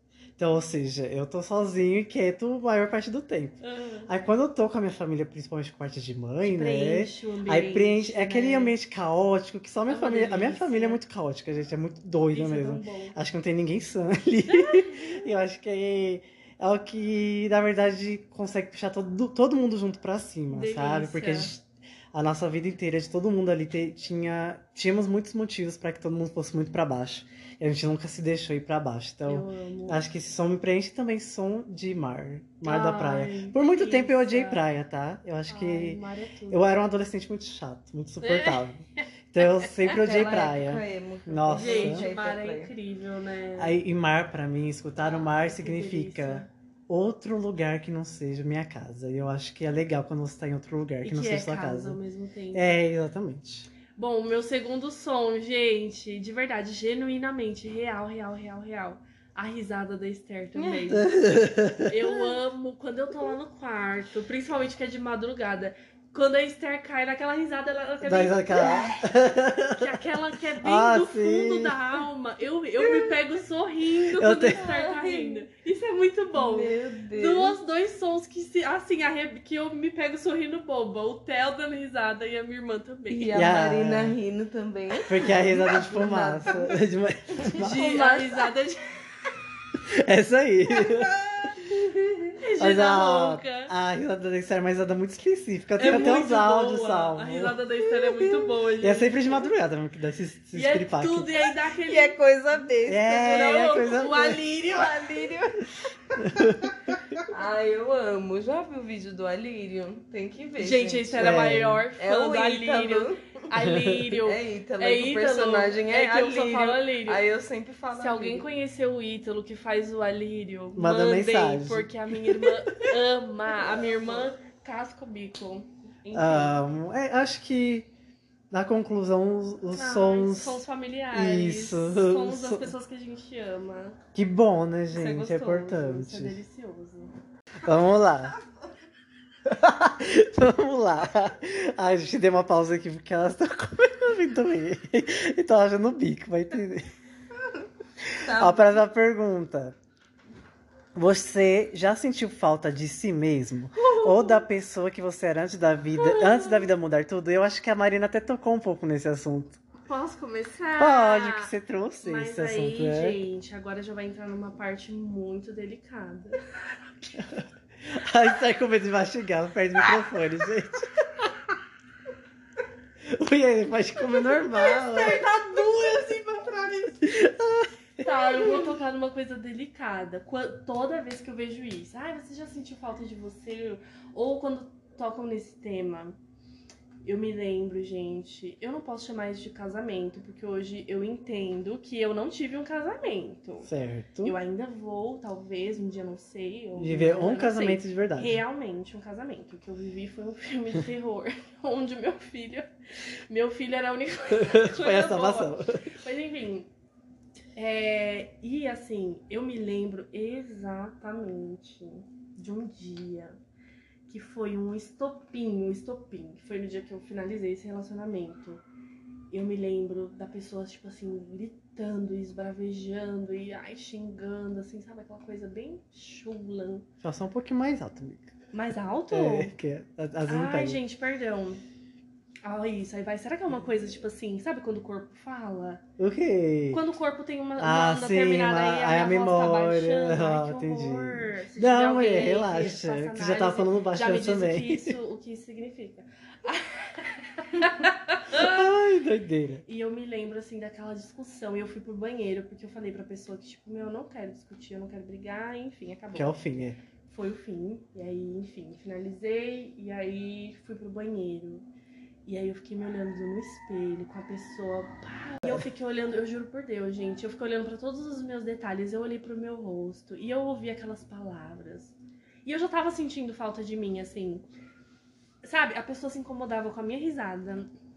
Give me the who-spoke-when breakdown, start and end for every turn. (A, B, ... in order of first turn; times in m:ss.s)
0:00.4-0:42.1 A
0:03.6-0:04.3 B
0:06.4-0:08.8 B
0:09.9-0:11.0 B
0:12.3-0:13.2 B
0:14.5-0:15.2 B
0:20.5-0:21.5 B
0:29.2-0:30.0 B
0:32.6-0:34.6 B
0:35.5-0:36.6 B
0:38.2-0:38.6 B
0:39.9-0:42.7 C
0:41.5-0:43.8 B
0:43.6-0:52.0 A
0:45.0-0:46.5 B
0:51.0-0:52.8 B
0:52.5-0:53.7 A
0:53.9-1:01.3 B
1:00.6-1:00.8 C
1:00.9-1:02.3 A
1:01.8-1:09.0 B
1:08.0-1:10.0 A
1:09.7-1:23.5 B
1:10.6-1:11.8 A
1:14.2-1:14.6 A
1:14.6-1:15.4 C
1:16.3-1:17.6 C
1:23.1-1:26.8 C
1:23.3-1:24.2 A
1:25.1-1:27.8 A
1:27.4-1:28.5 C
1:27.5-1:28.8 B
1:29.8-1:31.1 A
1:31.7-1:32.3 C
1:32.4-1:33.7 B
1:32.6-1:37.6 A
1:35.8-1:39.5 B
1:37.9-1:38.5 C
1:38.8-1:41.3 A
1:40.5-1:42.2 B
1:41.8-1:45.6 C
1:42.8-1:44.4 A
1:43.2-1:45.1 B
1:46.2-1:46.8 A
1:47.3-1:53.4 C
1:50.6-1:57.2 B
1:51.2-1:51.8 A
1:53.7-1:54.1 A
1:54.2-1:58.5 C
1:57.9-2:06.6 B
2:00.8-2:02.9 A
2:03.9-2:04.2 C
2:06.1-2:07.9 A
2:08.5-2:12.7 A
2:09.7-2:14.0 B
2:14.1-2:16.4 A
2:14.9-2:17.1 B
2:17.6-2:18.4 A
2:19.4-2:26.8 A
2:28.0-2:29.8 A
2:28.2-2:28.9 C
2:30.9-2:39.6 A
2:33.7-2:34.4 B
2:36.0-2:36.7 B
2:39.9-2:46.4 B
2:40.8-2:43.2 A
2:47.1-2:51.3 A
2:53.1-2:55.3 A
2:54.0-2:57.1 B
2:57.0-2:58.7 A
2:58.0-3:06.2 B
3:07.0-3:13.7 B
3:13.6-3:14.4 A
3:14.2-3:22.7 B
3:16.8-3:18.4 A
3:23.3-3:26.7 B
3:24.3-3:25.8 A
3:27.6-3:33.4 B
3:34.1-3:38.6 B
3:39.3-3:46.8 B
3:47.0-3:48.3 A
3:48.5-3:49.5 B
3:49.1-3:50.8 A
3:50.2-3:51.6 B
3:52.4-3:55.8 B
3:56.0-3:56.8 A
3:56.7-4:08.6 B
3:57.6-4:05.0 A
4:08.3-4:09.6 A
4:09.7-4:16.4 B
4:16.1-4:16.8 A
4:17.0-4:21.6 B
4:22.2-4:31.9 B
4:32.4-4:34.5 B
4:35.4-4:37.7 B